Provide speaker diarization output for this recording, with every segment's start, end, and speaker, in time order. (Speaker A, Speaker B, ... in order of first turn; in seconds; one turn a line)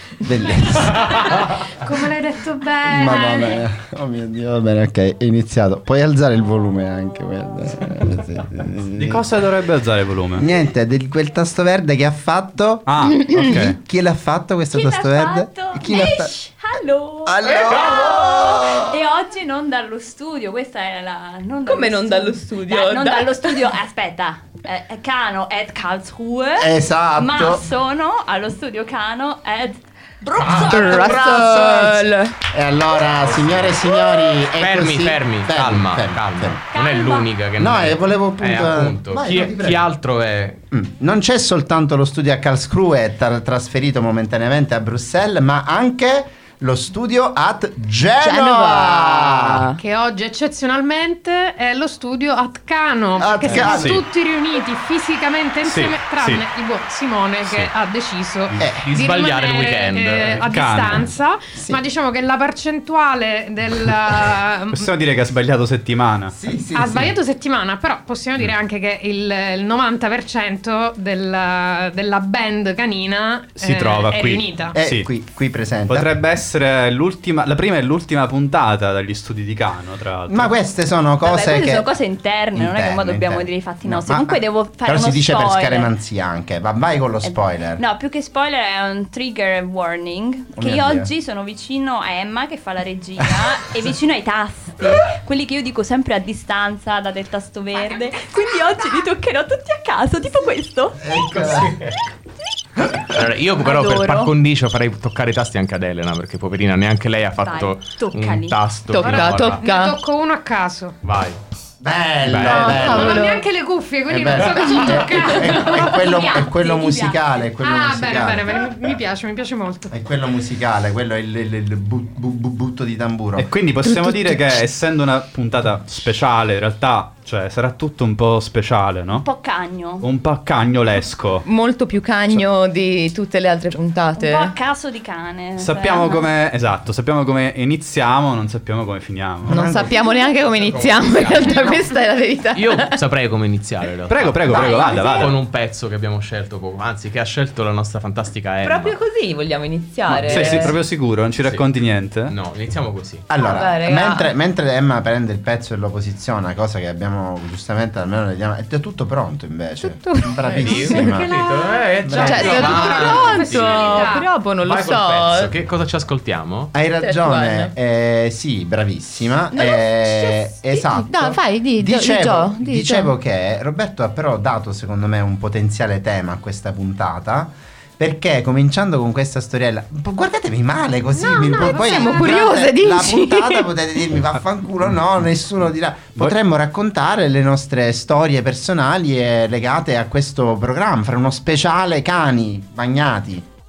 Speaker A: 0.2-1.7
Speaker B: 1.1-3.6
Speaker A: 2.9-9.3
Speaker C: 8.9-10.5
Speaker A: 10.4-16.4
Speaker C: 12.9-13.8
Speaker D: 14.7-32.0
Speaker A: 17.3-19.0
Speaker E: 21.7-23.4
Speaker A: 26.6-27.6
Speaker A: 30.4-32.0
Speaker E: 30.5-32.4
Speaker A: 32.5-36.6
Speaker F: 33.2-33.8
Speaker D: 34.0-34.4
Speaker F: 34.6-40.6
Speaker D: 36.7-37.3
Speaker A: 37.6-39.9
Speaker A: 40.7-49.7
Speaker E: 48.2-49.8
Speaker B: 49.8-64.9
Speaker A: 53.2-54.0
Speaker C: 53.5-54.0
Speaker C: 55.6-56.4
Speaker C: 57.4-57.7
Speaker A: 58.6-58.8
Speaker F: 58.8-60.4
Speaker C: 60.4-61.1
Speaker C: 64.7-66.3
Speaker A: 66.3-67.1
Speaker B: 66.7-74.8
Speaker C: 73.6-75.1
Speaker A: 74.7-76.1
Speaker C: 75.9-80.5
Speaker A: 80.3-82.0
Speaker D: 81.2-85.9
Speaker A: 82.5-87.8
Speaker D: 87.8-101.4
Speaker A: 90.6-91.1
Speaker A: 101.0-101.8
Speaker F: 101.1-102.0
Speaker F: 103.1-109.6
Speaker D: 103.6-104.3
Speaker D: 107.4-108.6
Speaker E: 108.9-110.0
Speaker B: 109.0-111.0
Speaker F: 111.0-111.4
Speaker A: 111.8-113.4
Speaker F: 112.2-112.8
Speaker E: 112.5-113.5
Speaker B: 112.8-116.1
Speaker A: 114.1-118.7
Speaker D: 116.0-117.3
Speaker B: 117.6-119.9
Speaker A: 119.9-123.5
Speaker C: 123.4-129.3
Speaker E: 123.8-124.6
Speaker D: 129.1-130.1
Speaker C: 130.0-131.4
Speaker E: 131.4-134.5
Speaker D: 134.2-136.3
Speaker C: 135.6-139.7
Speaker A: 139.5-140.1
Speaker E: 139.5-143.0
Speaker F: 140.5-141.8
Speaker F: 142.6-149.0
Speaker C: 144.1-145.4
Speaker D: 144.5-145.3
Speaker E: 144.5-145.2
Speaker E: 148.6-150.8
Speaker F: 150.1-150.8
Speaker C: 150.3-152.3
Speaker F: 152.3-153.3
Speaker A: 153.3-161.4
Speaker E: 153.4-154.3
Speaker E: 159.8-161.1
Speaker F: 160.4-164.1
Speaker B: 161.1-164.3
Speaker A: 162.1-163.0
Speaker E: 162.2-165.5
Speaker F: 164.6-166.7
Speaker A: 166.7-193.5
Speaker E: 167.0-167.7
Speaker E: 169.5-173.1
Speaker B: 181.2-182.5
Speaker E: 181.6-183.7